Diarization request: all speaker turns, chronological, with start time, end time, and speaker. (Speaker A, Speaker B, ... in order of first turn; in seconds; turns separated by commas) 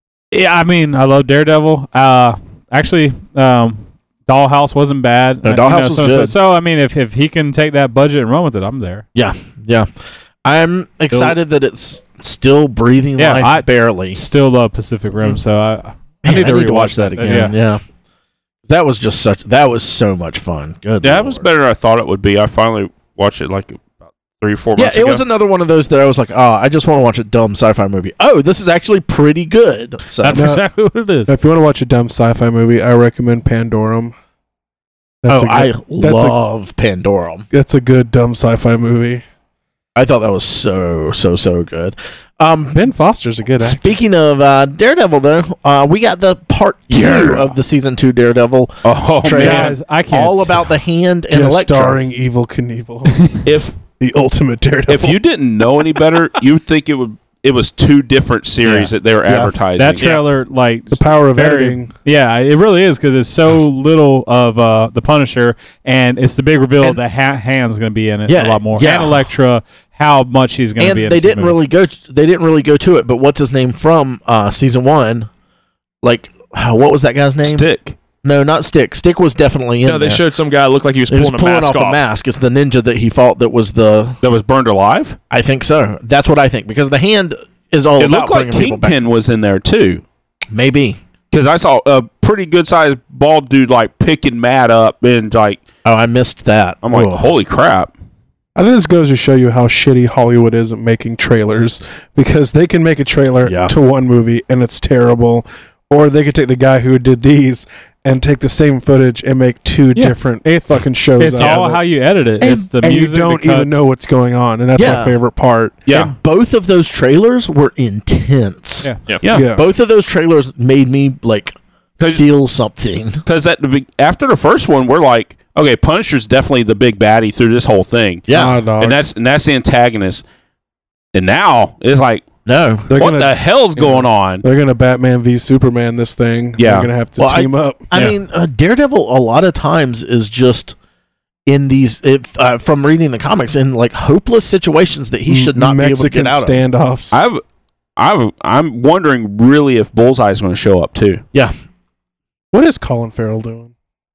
Speaker A: 0.3-9.0, Speaker B: 5.4-6.3, Speaker B: 9.1-9.9, Speaker B: 10.4-14.2, Speaker A: 11.1-11.4, Speaker A: 13.2-17.5, Speaker B: 16.2-17.8, Speaker B: 18.7-21.4, Speaker C: 21.0-25.2, Speaker B: 24.8-30.4, Speaker A: 30.2-31.3, Speaker D: 30.3-30.6, Speaker D: 31.3-34.1, Speaker D: 35.2-36.4, Speaker B: 35.3-37.5, Speaker D: 37.5-39.2, Speaker B: 39.9-42.9, Speaker D: 42.7-44.0, Speaker B: 43.6-52.0, Speaker D: 46.9-47.4, Speaker C: 48.8-49.8, Speaker A: 49.3-50.6, Speaker D: 51.3-53.2, Speaker C: 53.4-53.7, Speaker D: 54.0-55.2, Speaker C: 54.9-60.2, Speaker A: 58.6-58.9, Speaker A: 59.8-71.6, Speaker D: 60.9-61.9, Speaker B: 68.3-69.2, Speaker B: 70.8-75.3, Speaker B: 76.0-77.7, Speaker C: 77.4-78.0, Speaker B: 78.2-80.2, Speaker E: 79.8-82.0, Speaker B: 81.1-84.2, Speaker C: 84.2-85.2, Speaker B: 85.3-89.0, Speaker C: 88.0-90.0, Speaker B: 90.5-91.0, Speaker C: 91.3-95.6, Speaker B: 95.8-97.3, Speaker C: 96.8-97.9, Speaker D: 98.5-111.8, Speaker B: 103.4-103.7, Speaker A: 109.9-113.8, Speaker D: 112.4-115.9, Speaker B: 114.8-115.2, Speaker C: 115.9-116.1, Speaker B: 115.9-121.5, Speaker D: 119.3-119.7, Speaker C: 122.0-122.2, Speaker B: 122.1-123.2, Speaker C: 123.2-130.2, Speaker B: 128.3-128.6, Speaker D: 128.3-129.0, Speaker C: 131.1-132.2, Speaker B: 132.4-132.9, Speaker D: 132.9-137.9, Speaker C: 132.9-134.4, Speaker C: 136.6-136.9, Speaker B: 137.2-140.8, Speaker B: 141.4-146.6, Speaker D: 145.3-147.2, Speaker C: 147.1-147.4, Speaker C: 148.0-151.2, Speaker D: 152.5-153.7